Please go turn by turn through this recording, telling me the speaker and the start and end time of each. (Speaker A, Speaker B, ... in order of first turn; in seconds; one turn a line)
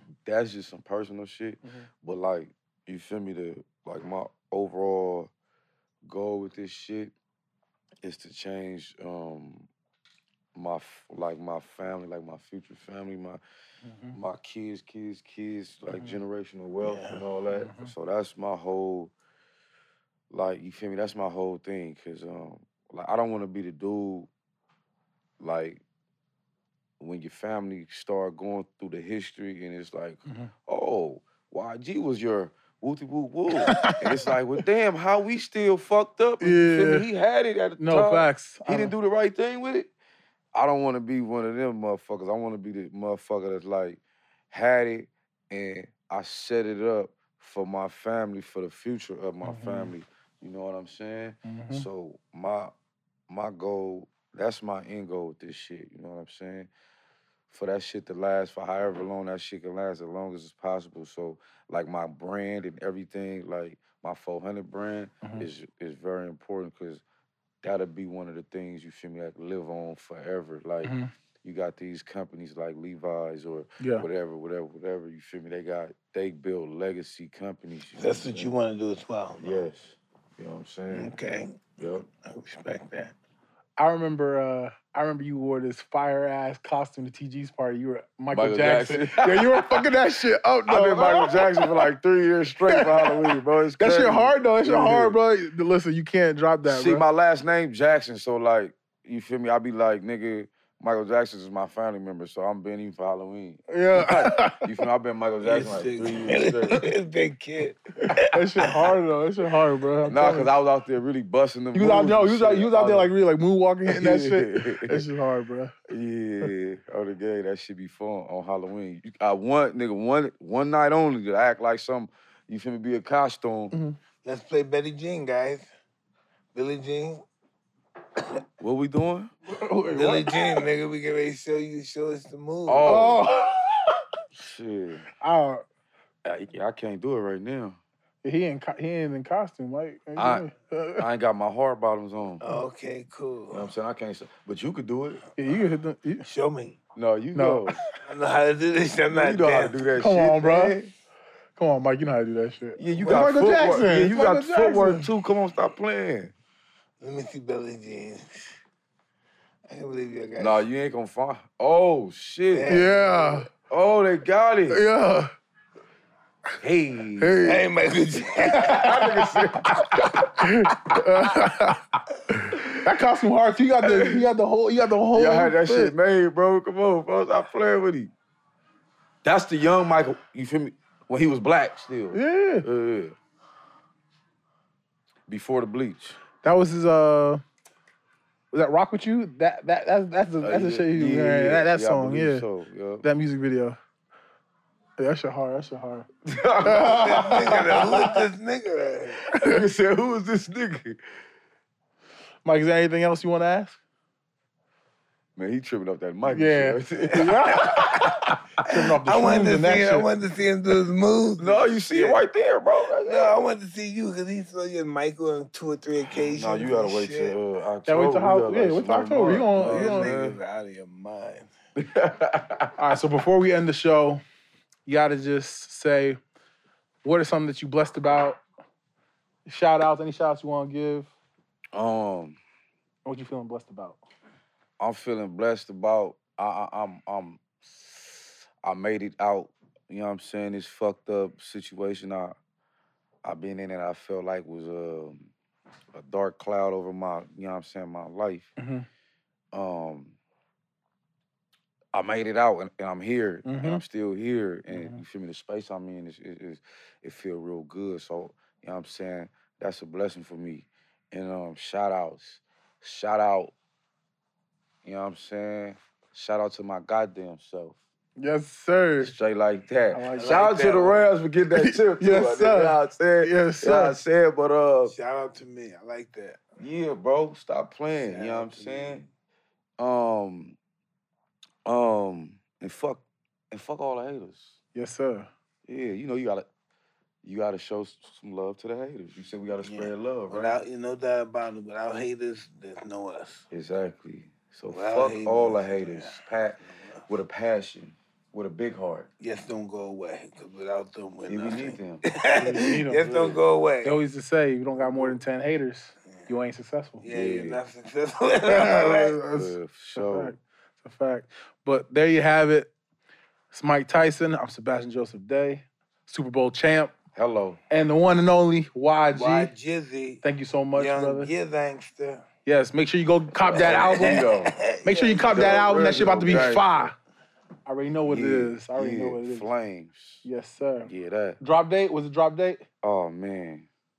Speaker A: 0.2-5.3
Speaker A: 6.0-7.1
Speaker A: 8.0-9.7
Speaker A: 10.5-13.4
Speaker B: 13.8-14.2
Speaker A: 14.1-19.1
Speaker B: 15.9-16.2
Speaker C: 16.8-17.2
Speaker B: 17.5-17.9
Speaker A: 20.3-24.3
Speaker A: 25.4-25.8
Speaker A: 27.0-39.9
Speaker B: 33.6-34.3
Speaker B: 36.4-37.1
Speaker B: 37.8-38.9
Speaker A: 40.5-44.0
Speaker A: 44.5-52.7
Speaker B: 49.4-49.9
Speaker B: 51.5-51.9
Speaker A: 53.3-56.7
Speaker A: 57.5-67.0
Speaker A: 67.6-78.5
Speaker B: 70.8-71.1
Speaker B: 73.8-74.0
Speaker C: 78.0-79.7
Speaker A: 79.4-81.1
Speaker C: 80.9-83.1
Speaker A: 81.8-82.0
Speaker B: 83.8-91.9
Speaker A: 88.3-89.9
Speaker A: 90.7-95.2
Speaker B: 92.7-97.0
Speaker A: 96.6-106.9
Speaker B: 103.7-104.7
Speaker C: 105.4-108.3
Speaker B: 108.2-110.5
Speaker A: 110.0-113.1
Speaker B: 111.7-115.7
Speaker A: 113.8-115.1
Speaker A: 115.9-123.7
Speaker B: 123.7-124.0
Speaker C: 124.2-125.7
Speaker C: 126.5-127.2
Speaker A: 128.6-129.3
Speaker B: 129.5-130.6
Speaker C: 129.9-133.0
Speaker A: 132.7-133.3
Speaker B: 132.8-134.0
Speaker A: 134.3-135.1
Speaker B: 135.2-135.6
Speaker A: 136.2-137.8
Speaker B: 138.2-141.1
Speaker A: 140.2-142.4
Speaker C: 142.4-143.7
Speaker A: 143.5-145.2
Speaker B: 145.3-146.3
Speaker C: 146.2-146.8
Speaker A: 146.9-147.8
Speaker B: 147.3-147.8
Speaker C: 148.0-149.8
Speaker A: 149.1-150.9
Speaker B: 150.0-150.8
Speaker B: 151.6-155.1
Speaker A: 152.8-156.3
Speaker C: 157.0-158.6
Speaker C: 159.7-160.6
Speaker A: 160.4-162.8
Speaker C: 162.5-163.4
Speaker B: 162.7-163.5
Speaker A: 163.5-164.8
Speaker B: 164.7-165.3
Speaker A: 166.6-167.6
Speaker B: 167.2-167.7
Speaker C: 167.4-168.9
Speaker B: 168.5-169.4
Speaker A: 168.6-170.4
Speaker B: 170.4-175.9
Speaker A: 172.3-172.8
Speaker A: 173.8-174.3
Speaker A: 175.1-178.1
Speaker A: 179.2-183.1
Speaker B: 182.1-182.7
Speaker A: 185.3-186.2
Speaker B: 186.4-187.4
Speaker B: 188.5-192.4
Speaker A: 190.4-193.1
Speaker B: 193.0-193.8
Speaker B: 195.0-196.1
Speaker A: 196.2-197.9
Speaker B: 196.6-198.2
Speaker C: 196.8-199.2
Speaker A: 199.3-201.0
Speaker B: 202.4-203.8
Speaker A: 205.3-208.4
Speaker B: 206.2-210.1
Speaker C: 209.0-212.2
Speaker A: 211.4-213.4
Speaker C: 213.0-217.4
Speaker A: 216.2-220.4
Speaker B: 217.8-220.1
Speaker C: 219.5-221.5
Speaker A: 221.8-222.9
Speaker B: 222.8-224.2
Speaker B: 224.8-226.2
Speaker B: 227.0-228.4
Speaker B: 229.5-231.1
Speaker A: 231.7-232.4
Speaker B: 233.0-234.0
Speaker A: 234.8-242.4
Speaker A: 243.2-245.3
Speaker A: 245.9-248.5
Speaker B: 248.6-248.8
Speaker A: 249.5-250.2
Speaker A: 251.9-263.5
Speaker B: 253.4-253.8
Speaker B: 254.7-255.0
Speaker A: 264.8-267.8
Speaker B: 268.2-269.1
Speaker A: 269.0-274.9
Speaker B: 269.9-270.4
Speaker C: 270.1-271.1
Speaker B: 271.5-274.0
Speaker C: 274.9-276.5
Speaker A: 276.6-279.1
Speaker C: 277.9-279.1
Speaker A: 279.8-280.6
Speaker A: 281.6-284.6
Speaker B: 284.7-285.3
Speaker A: 285.6-286.5
Speaker A: 287.2-290.6
Speaker C: 289.6-293.4
Speaker A: 293.5-299.1
Speaker C: 294.7-296.2
Speaker C: 296.7-297.0
Speaker C: 299.2-304.0
Speaker A: 301.3-302.0
Speaker B: 302.3-303.0
Speaker A: 303.0-303.4
Speaker B: 303.8-307.1
Speaker C: 304.8-305.2
Speaker C: 307.0-309.2
Speaker A: 307.1-307.6
Speaker B: 308.5-312.7
Speaker A: 309.3-310.3
Speaker B: 313.5-316.9
Speaker A: 317.1-317.6
Speaker B: 317.7-319.5
Speaker C: 319.1-320.2
Speaker B: 320.2-321.3
Speaker C: 320.7-322.2
Speaker B: 322.4-324.3
Speaker A: 323.4-324.5
Speaker C: 323.6-326.5
Speaker B: 324.8-326.9
Speaker A: 325.2-326.9
Speaker B: 327.6-329.5
Speaker A: 328.1-330.2
Speaker B: 330.2-330.9
Speaker A: 330.9-331.4
Speaker B: 331.4-332.6
Speaker A: 332.8-333.7